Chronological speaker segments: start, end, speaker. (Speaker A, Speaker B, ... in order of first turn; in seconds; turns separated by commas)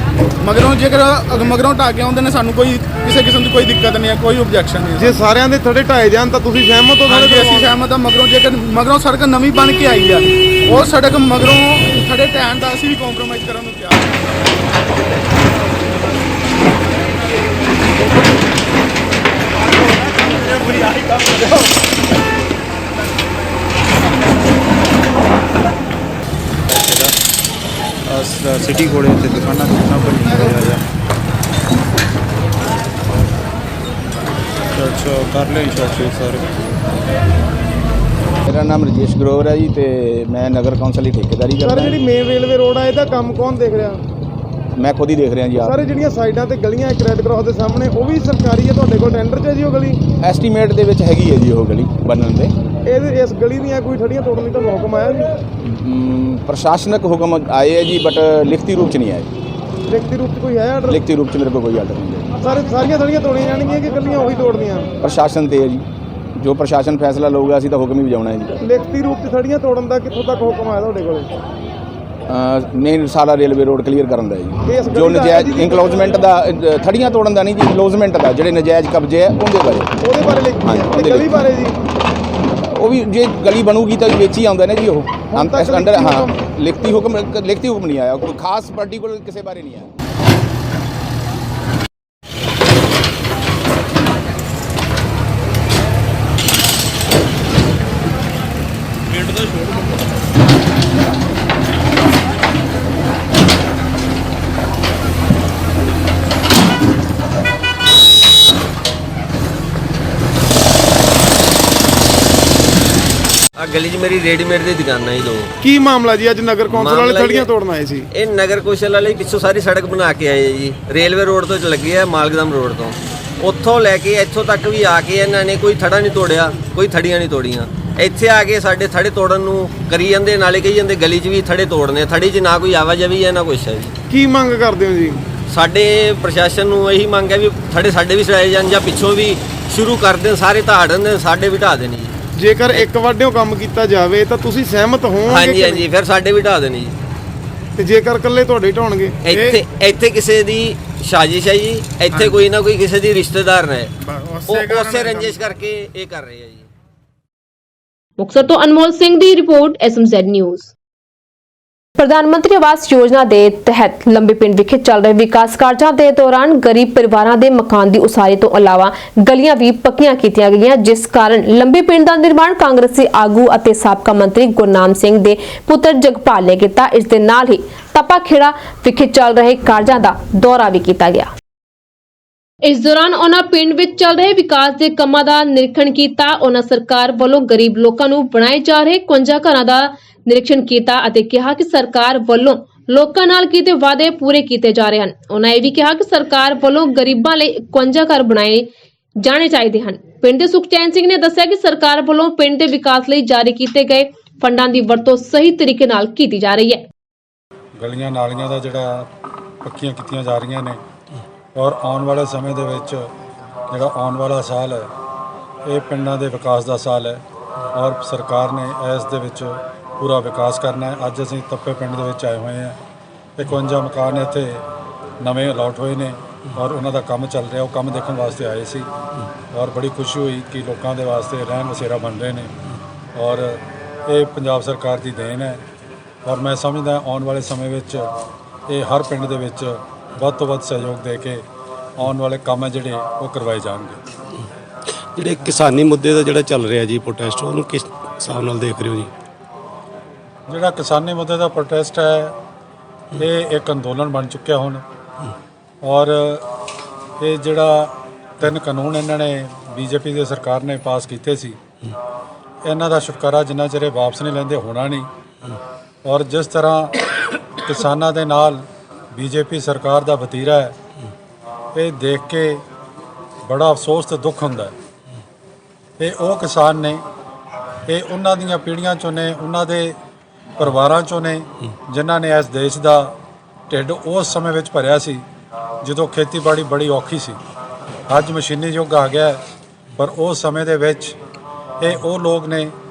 Speaker A: 0.4-5.1, Speaker B: 5.0-7.8, Speaker A: 7.1-14.1, Speaker C: 26.8-27.1, Speaker C: 28.1-30.8, Speaker C: 34.8-36.4, Speaker D: 38.5-42.1, Speaker B: 41.6-44.0, Speaker D: 44.7-45.9, Speaker B: 45.6-50.0, Speaker D: 50.2-52.5, Speaker B: 52.9-55.2, Speaker D: 55.6-59.3, Speaker B: 59.9-60.9, Speaker D: 60.9-62.3, Speaker B: 62.4-64.9, Speaker D: 65.0-65.8, Speaker D: 66.3-68.5, Speaker B: 68.6-71.3, Speaker D: 72.3-81.5, Speaker B: 74.7-76.2, Speaker B: 80.0-81.8, Speaker D: 82.6-89.9, Speaker B: 85.3-86.3, Speaker E: 113.6-115.5, Speaker B: 115.6-118.1, Speaker E: 116.7-117.5, Speaker E: 118.1-133.9, Speaker B: 134.1-135.2, Speaker E: 135.5-142.1, Speaker B: 142.4-145.9, Speaker E: 145.2-146.9, Speaker B: 147.8-149.2, Speaker E: 149.2-153.9, Speaker A: 149.3-149.6, Speaker A: 152.1-152.4, Speaker A: 154.0-155.4, Speaker E: 154.5-156.7, Speaker F: 158.2-160.7, Speaker F: 162.0-181.3, Speaker F: 182.6-198.7, Speaker F: 199.2-206.8, Speaker G: 207.8-209.1, Speaker G: 209.6-210.8, Speaker G: 211.6-213.0, Speaker G: 213.7-214.9, Speaker G: 215.7-217.2, Speaker G: 217.8-222.8, Speaker G: 223.4-224.6, Speaker G: 225.2-228.9, Speaker G: 229.5-232.5, Speaker G: 233.2-235.6, Speaker G: 236.2-238.1, Speaker G: 238.7-241.4, Speaker G: 242.0-244.0, Speaker H: 245.1-249.1, Speaker G: 250.5-252.3, Speaker G: 253.2-254.8, Speaker G: 255.8-256.4, Speaker G: 257.2-261.6, Speaker G: 262.6-265.1, Speaker G: 266.0-266.9, Speaker G: 267.6-270.7, Speaker G: 271.7-272.6, Speaker G: 273.5-274.7, Speaker G: 276.0-277.0, Speaker G: 277.9-279.9, Speaker G: 280.6-283.1, Speaker G: 283.7-285.2, Speaker G: 285.8-287.4, Speaker G: 288.1-289.4, Speaker G: 290.0-291.1, Speaker G: 291.8-292.7